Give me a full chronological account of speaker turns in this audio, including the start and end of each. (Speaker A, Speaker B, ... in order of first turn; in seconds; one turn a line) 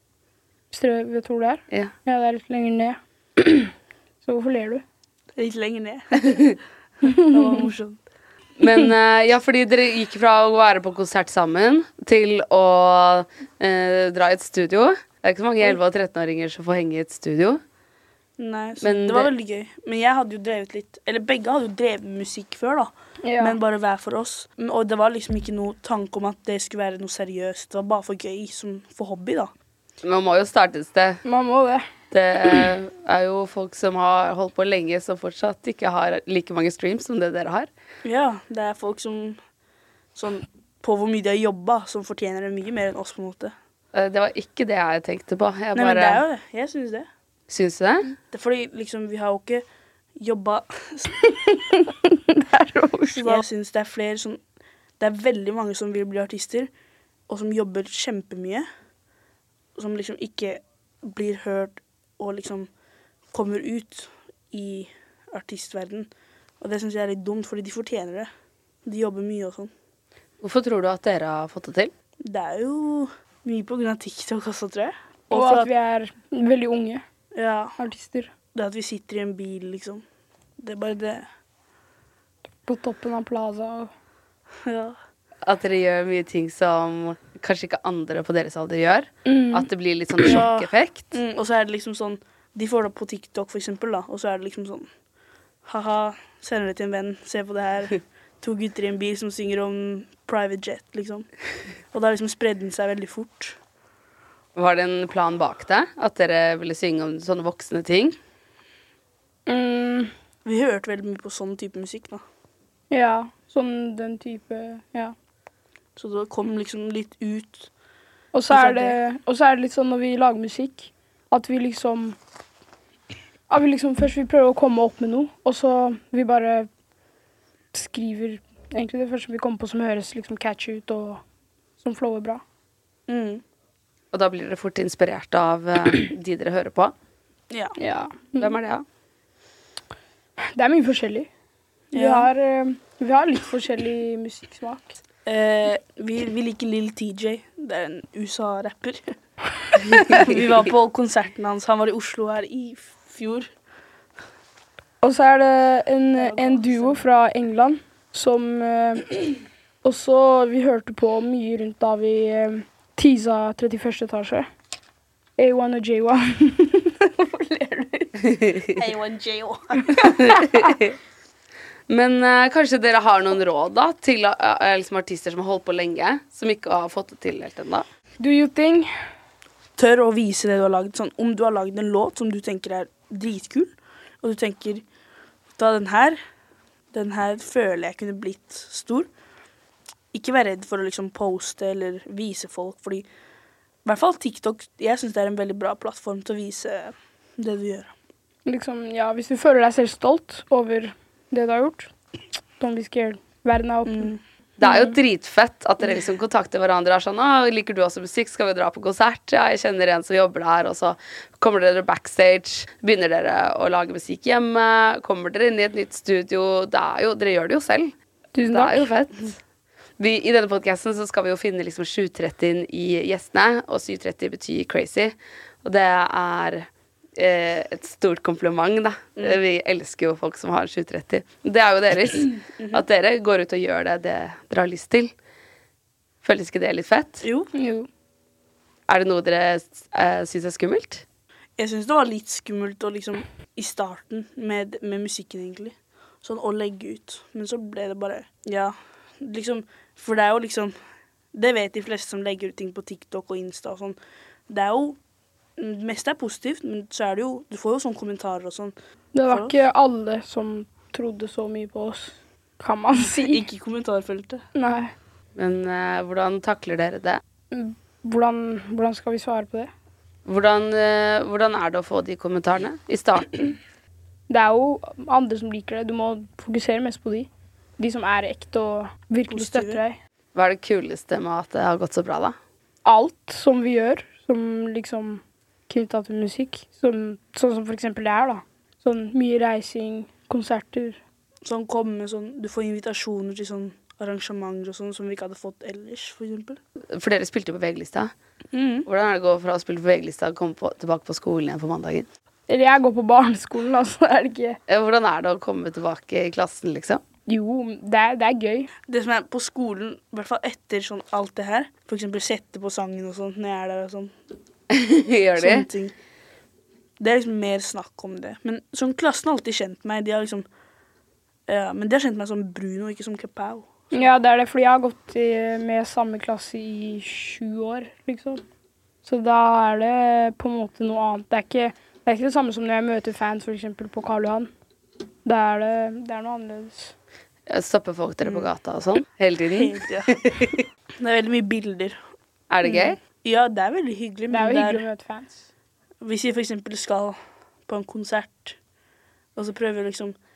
Speaker A: 0.7-3.7
Speaker A: 4.2-4.8
Speaker B: 5.4-8.0
Speaker A: 7.0-7.7
Speaker C: 8.6-17.6
Speaker B: 18.4-29.5
Speaker C: 18.8-19.3
Speaker A: 23.2-23.6
Speaker C: 30.0-31.2
Speaker A: 31.2-31.9
Speaker C: 32.1-37.7
Speaker B: 38.0-39.4
Speaker B: 40.1-43.5
Speaker C: 43.9-46.2
Speaker B: 45.8-47.1
Speaker C: 47.5-48.1
Speaker B: 48.3-49.6
Speaker B: 50.2-51.1
Speaker A: 51.2-53.4
Speaker B: 53.1-54.4
Speaker B: 55.0-56.7
Speaker B: 57.3-58.7
Speaker B: 59.8-62.7
Speaker B: 63.3-66.1
Speaker B: 66.6-68.3
Speaker B: 68.8-69.7
Speaker C: 70.4-71.9
Speaker B: 72.2-75.7
Speaker A: 75.3-77.0
Speaker B: 77.3-77.8
Speaker A: 77.8-78.3
Speaker B: 78.5-80.0
Speaker B: 80.6-81.3
Speaker A: 82.7-83.9
Speaker B: 84.7-85.0
Speaker C: 85.5-91.1
Speaker A: 89.3-89.7
Speaker B: 90.2-94.9
Speaker B: 95.7-101.3
Speaker B: 101.9-103.6
Speaker C: 104.6-108.2
Speaker A: 109.5-110.1
Speaker B: 110.5-112.2
Speaker A: 112.9-115.2
Speaker B: 116.0-117.7
Speaker A: 118.3-122.2
Speaker B: 118.5-119.0
Speaker A: 123.5-126.7
Speaker A: 127.7-131.2
Speaker A: 131.8-132.4
Speaker B: 133.1-133.4
Speaker C: 134.1-136.9
Speaker B: 137.5-137.8
Speaker A: 137.8-138.5
Speaker C: 138.4-138.8
Speaker A: 140.6-141.3
Speaker B: 141.9-142.3
Speaker A: 141.9-145.0
Speaker B: 145.2-149.1
Speaker B: 149.8-153.5
Speaker A: 155.0-164.5
Speaker B: 156.2-157.0
Speaker A: 165.4-168.6
Speaker B: 168.8-170.0
Speaker A: 169.9-170.7
Speaker C: 170.0-170.9
Speaker C: 171.9-177.8
Speaker A: 178.2-178.9
Speaker B: 179.8-184.8
Speaker B: 185.6-186.2
Speaker B: 186.9-189.1
Speaker B: 190.1-193.1
Speaker B: 193.8-197.9
Speaker A: 198.5-201.9
Speaker A: 202.6-205.0
Speaker B: 203.9-204.2
Speaker C: 204.6-217.9
Speaker A: 218.3-218.9
Speaker C: 218.5-219.4
Speaker C: 220.0-235.1
Speaker B: 232.4-232.8
Speaker C: 236.2-237.2
Speaker B: 237.2-237.5
Speaker A: 237.6-237.9
Speaker C: 238.9-241.0
Speaker B: 241.6-250.8
Speaker B: 251.3-254.0
Speaker B: 254.5-255.0
Speaker B: 255.6-258.8
Speaker A: 259.1-263.4
Speaker B: 259.3-259.6
Speaker B: 263.0-264.5
Speaker A: 264.6-264.9
Speaker C: 265.4-267.2
Speaker A: 267.5-269.7
Speaker C: 270.3-273.5
Speaker A: 274.3-280.0
Speaker B: 279.3-279.8
Speaker C: 280.4-282.4
Speaker A: 282.9-291.0
Speaker B: 291.4-296.6
Speaker C: 296.9-298.1
Speaker B: 298.5-298.9
Speaker C: 298.9-302.1
Speaker A: 302.5-304.6
Speaker C: 304.7-307.0
Speaker A: 307.3-308.7
Speaker B: 308.9-314.1
Speaker C: 314.7-315.7
Speaker B: 315.4-315.9
Speaker B: 317.0-320.5
Speaker B: 321.5-324.1
Speaker A: 323.9-328.4
Speaker A: 329.0-334.5
Speaker A: 335.2-336.9
Speaker C: 337.5-340.6
Speaker B: 338.2-338.5
Speaker B: 339.5-340.2
Speaker B: 341.0-342.0
Speaker C: 342.5-343.0
Speaker B: 342.6-344.9
Speaker A: 344.3-345.4
Speaker B: 346.0-347.2
Speaker B: 347.7-348.6
Speaker B: 349.4-350.2